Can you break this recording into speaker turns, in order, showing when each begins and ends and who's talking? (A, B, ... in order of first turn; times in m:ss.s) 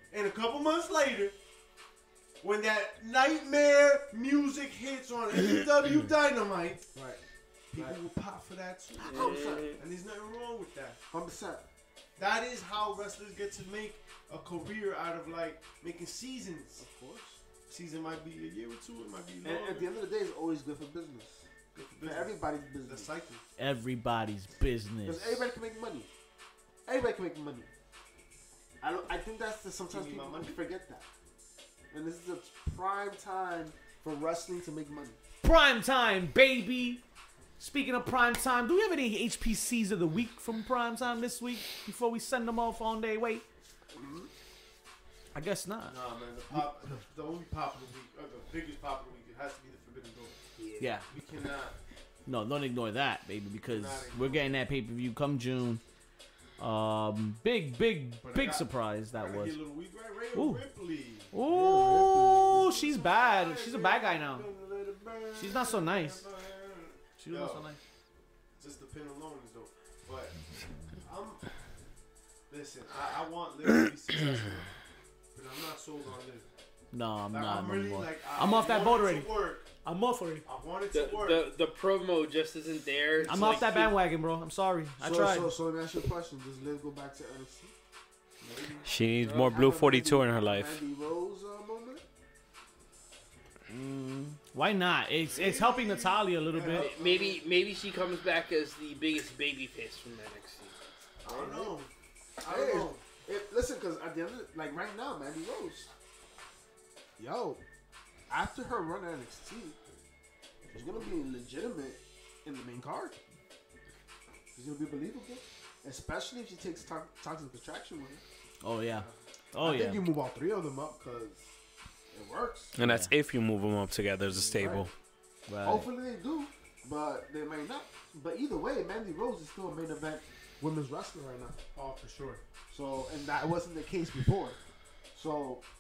0:00.1-0:01.4 A
0:02.4-0:06.9 A
0:06.9-0:07.2 B
0:07.7-0:11.0 A
0:07.7-0:08.0 B
0:09.0-0:09.8 C
0:09.0-0:09.7 B
0:11.1-0:11.6 B
0:12.2-0:16.8 A
0:16.8-0:17.4 B
0:17.6-0:19.9 A
0:19.4-0:21.4 B
0:21.7-0:23.4 A
0:22.0-0:23.1 B
0:23.6-0:25.5 D
0:25.0-0:26.1 B
0:26.8-0:27.7 B
0:28.8-0:31.1 B
0:29.9-0:30.6 A
0:31.9-0:35.2 B
0:35.4-0:37.0 D
0:37.6-0:43.4 D
0:43.9-0:44.3 B
0:45.3-0:46.0 D
0:45.9-0:50.4 A
0:50.6-0:50.9 C
0:50.8-0:51.1 D
0:51.1-0:51.8 A
0:52.2-0:55.8 D
0:53.6-0:54.5 A
0:56.6-0:59.6 D
0:58.2-1:01.3 A
1:00.3-1:00.6 D
1:01.3-1:04.5 D
1:01.4-1:02.7 B
1:02.5-1:07.6 A
1:05.3-1:06.2 D
1:07.2-1:07.8 D
1:08.6-1:10.4 A
1:11.0-1:11.4 A
1:12.5-1:14.7 A
1:15.3-1:16.4 A
1:16.9-1:20.4 D
1:17.3-1:19.7 A
1:20.4-1:21.5 A
1:20.9-1:23.9 C
1:23.2-1:23.7 A
1:23.3-1:25.5 D
1:25.0-1:27.7 B
1:28.4-1:28.9 A
1:28.8-1:30.8 E
1:29.2-1:29.5 C
1:29.2-1:32.0 B
1:33.7-1:36.9 D
1:35.3-1:37.4 A
1:36.7-1:40.8 C
1:41.2-1:43.0 A
1:41.2-1:41.7 B
1:42.4-1:45.9 B
1:47.2-1:47.6 B
1:48.3-1:49.8 B
1:50.7-1:53.2 B
1:54.5-1:58.2 B
1:58.6-2:00.1 D
1:59.6-2:01.5 B
2:02.1-2:02.8 B
2:02.7-2:04.9 E
2:02.8-2:03.1 D
2:04.4-2:04.9 B
2:05.5-2:05.9 D
2:05.6-2:11.6 B
2:11.7-2:12.4 A
2:12.7-2:14.6 B
2:15.1-2:15.6 B